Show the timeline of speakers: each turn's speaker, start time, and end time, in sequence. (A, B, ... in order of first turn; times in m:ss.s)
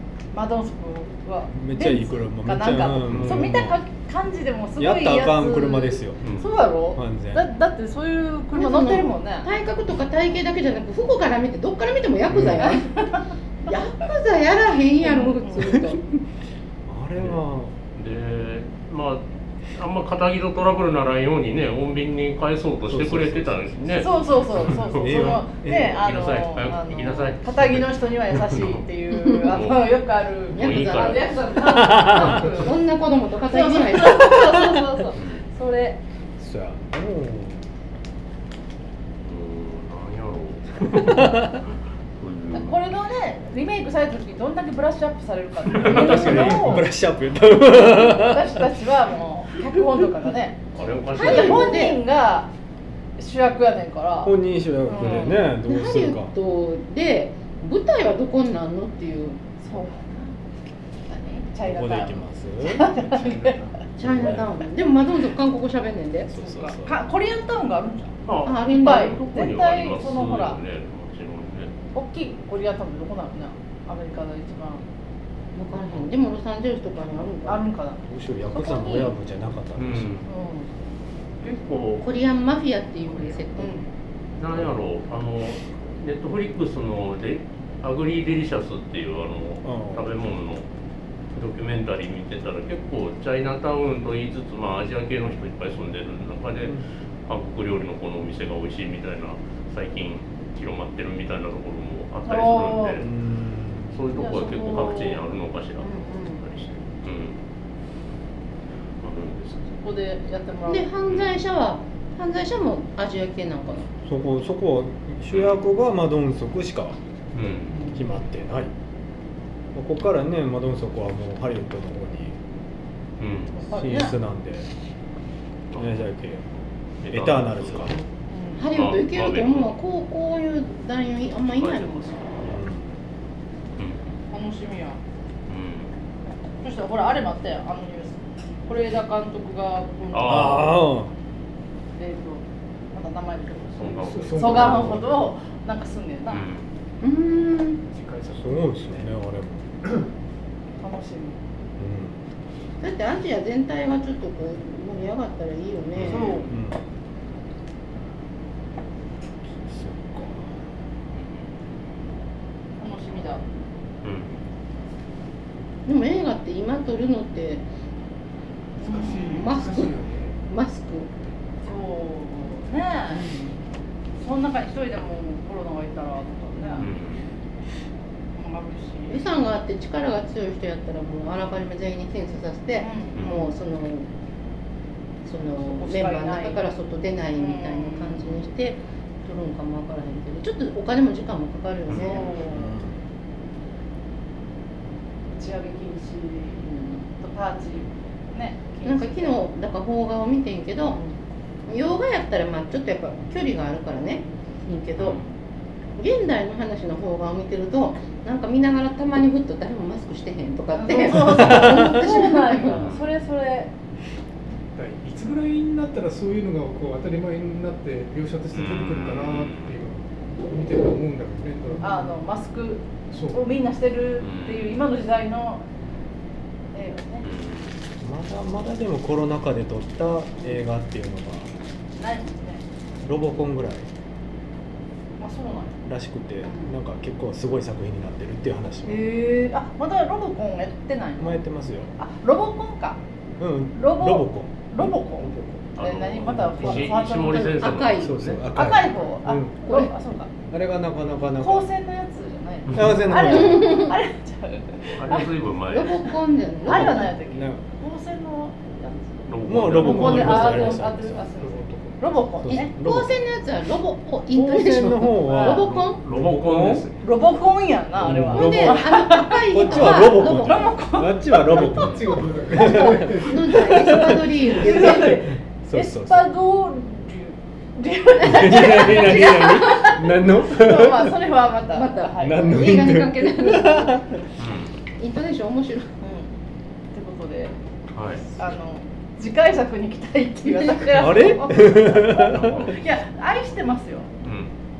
0:00.3-0:09.5 A
0:01.5-0:03.8 B
0:03.1-0:03.4 C
0:04.8-0:06.2 B
0:06.2-0:06.5 C
0:06.9-0:07.5 B
0:08.5-0:13.0 D
0:12.3-0:12.7 B
0:12.6-0:13.2 A
0:13.7-0:16.0 D
0:15.0-0:15.6 A
0:15.6-0:16.2 B
0:16.8-0:17.7 B
0:17.9-0:28.8 C
0:22.9-0:26.1 B
0:24.0-0:32.8 A
0:29.3-0:29.6 D
0:29.5-0:29.9 C
0:30.5-0:34.4 D
0:30.5-0:31.4 C
0:31.6-0:32.5 B
0:33.4-0:36.0 A
0:34.2-0:34.8 B
0:35.1-0:35.4 C
0:36.4-0:37.6 B
0:39.2-0:41.6 C
0:40.9-0:41.6 B
0:42.2-0:42.8 C
0:42.5-0:46.9 A
0:45.7-0:46.6 C
0:45.8-0:48.7 B
0:47.7-0:50.6 A
0:50.7-0:51.8 C
0:51.1-0:52.0 D
0:51.2-0:52.5 A
0:53.2-0:54.3 A
0:54.2-0:56.3 B
0:54.9-0:55.4 A
0:55.0-0:55.3 C
0:55.0-0:59.5 D
0:59.6-1:00.3 A
1:01.1-1:04.6 A
1:01.6-1:02.9 B
1:04.0-1:06.3 D
1:04.0-1:04.5 B
1:06.3-1:07.0 B
1:06.4-1:10.6 A
1:08.2-1:11.8 C
1:08.4-1:09.2 D
1:11.9-1:14.8 A
1:15.5-1:17.6 D
1:17.4-1:19.1 A
1:18.0-1:20.2 B
1:19.8-1:20.3 C
1:20.3-1:20.7 A
1:21.4-1:22.0 C
1:22.0-1:23.8 D
1:23.6-1:23.8 A
1:24.4-1:30.7 C
1:29.6-1:30.1 B
1:31.3-1:43.1 C
1:42.3-1:43.0 A
1:43.0-1:44.0 B
1:43.9-1:47.4 C
1:44.1-1:45.2 A
1:45.8-1:46.4 A
1:49.0-1:49.7 C
1:49.8-1:50.9 A
1:50.7-1:53.9 D
1:51.1-1:51.3 C
1:54.0-1:57.0 B
1:55.3-1:55.6 C
1:57.3-1:57.9 C
1:57.7-1:58.7 B
1:59.7-2:02.4 B
2:03.2-2:03.6 C
2:03.6-2:04.2 A
2:03.7-2:04.7 B
2:05.7-2:06.4 B
2:07.0-2:08.0 C
2:07.1-2:08.0 B
2:08.3-2:08.6 A
2:08.6-2:12.3 D
2:08.7-2:09.7 C
2:11.6-2:12.6 C
2:12.4-2:13.0 B
2:13.8-2:14.0 C
2:14.3-2:15.0 A
2:15.5-2:15.9 C
2:16.6-2:20.8 A
2:20.1-2:20.8 C
2:20.2-2:21.1 B
2:22.0-2:26.5 A
2:23.8-2:25.0 C
2:24.0-2:25.1 E
2:24.5-2:25.1 B
2:26.3-2:26.7 C
2:27.0-2:27.8 D
2:27.9-2:29.0 E
2:28.3-2:29.8 B
2:30.8-2:31.4 A
2:31.8-2:32.2 B
2:32.8-2:36.4 D
2:36.0-2:36.5 C
2:36.0-2:36.8 B
2:36.0-2:36.5 A
2:39.6-2:40.7 B
2:41.1-2:41.5 C
2:42.8-2:43.4 A
2:44.0-2:44.3 C
2:45.8-2:47.6 D
2:48.8-2:50.4 E
2:48.8-2:49.9 D
2:50.5-2:51.1 D
2:51.6-2:53.3 A
2:53.1-2:53.6 D
2:54.2-2:56.9 A
2:56.8-2:57.3 C
2:58.3-2:59.2 A
2:59.1-3:04.1 D
3:02.8-3:03.5 A
3:03.2-3:03.4 C
3:05.2-3:12.4 D
3:05.6-3:06.6 A
3:07.3-3:08.4 A
3:11.9-3:12.7 A
3:12.4-3:13.0 B
3:15.3-3:19.4 A
3:16.6-3:17.0 D
3:18.8-3:21.0 D
3:20.8-3:21.2 A
3:21.7-3:25.2 D
3:25.0-3:25.3 C
3:26.0-3:32.8 D
3:30.7-3:33.7 A
3:31.1-3:32.0 B
3:32.7-3:33.0 C
3:34.7-3:42.2 E
3:38.5-3:39.8 C
3:41.8-3:45.6 A
3:43.1-3:43.4 E
3:44.2-3:44.8 C
3:46.7-3:47.2 A
3:47.2-3:47.8 C
3:48.0-3:51.5 B
3:52.0-3:52.6 A
3:53.0-3:53.9 B
3:55.2-3:55.8 A
3:55.8-3:59.1 B
3:56.4-3:56.7 A
3:58.8-4:01.4 A
4:01.2-4:01.9 B
4:02.0-4:03.0 A
4:03.4-4:05.7 B
4:03.7-4:07.8 A
4:05.8-4:08.4 C
4:06.3-4:06.8 B
4:07.3-4:08.2 D
4:08.0-4:09.6 B
4:08.5-4:10.3 A
4:09.7-4:09.9 D
4:10.5-4:11.7 B
4:11.4-4:15.3 A
4:12.7-4:13.8 B
4:13.2-4:14.0 D
4:15.0-4:16.0 C
4:15.7-4:17.1 D
4:16.6-4:22.7 A
4:16.6-4:17.6 B
4:19.2-4:20.7 C
4:19.4-4:21.2 B
4:19.8-4:22.2 E
4:22.4-4:23.1 B
4:22.5-4:26.0 D
4:24.3-4:26.8 B
4:25.2-4:25.6 A
4:26.0-4:27.0 C
4:27.0-4:31.7 A
4:28.0-4:36.3 B
4:28.3-4:30.8 D
4:31.4-4:33.6 E
4:32.5-4:33.0 A
4:33.2-4:35.2 D
4:34.2-4:42.9 A
4:38.2-4:41.2 B
4:38.8-4:39.6 D
4:41.7-4:44.2 D
4:42.2-4:44.0 B
4:44.4-4:44.8 C
4:45.0-4:45.9 D
4:46.0-4:46.3 A
4:46.9-4:47.6 A
4:47.9-4:48.2 C
4:48.4-4:54.1 A
4:50.9-4:52.7 B
4:52.2-4:53.0 C
4:54.2-4:54.5 C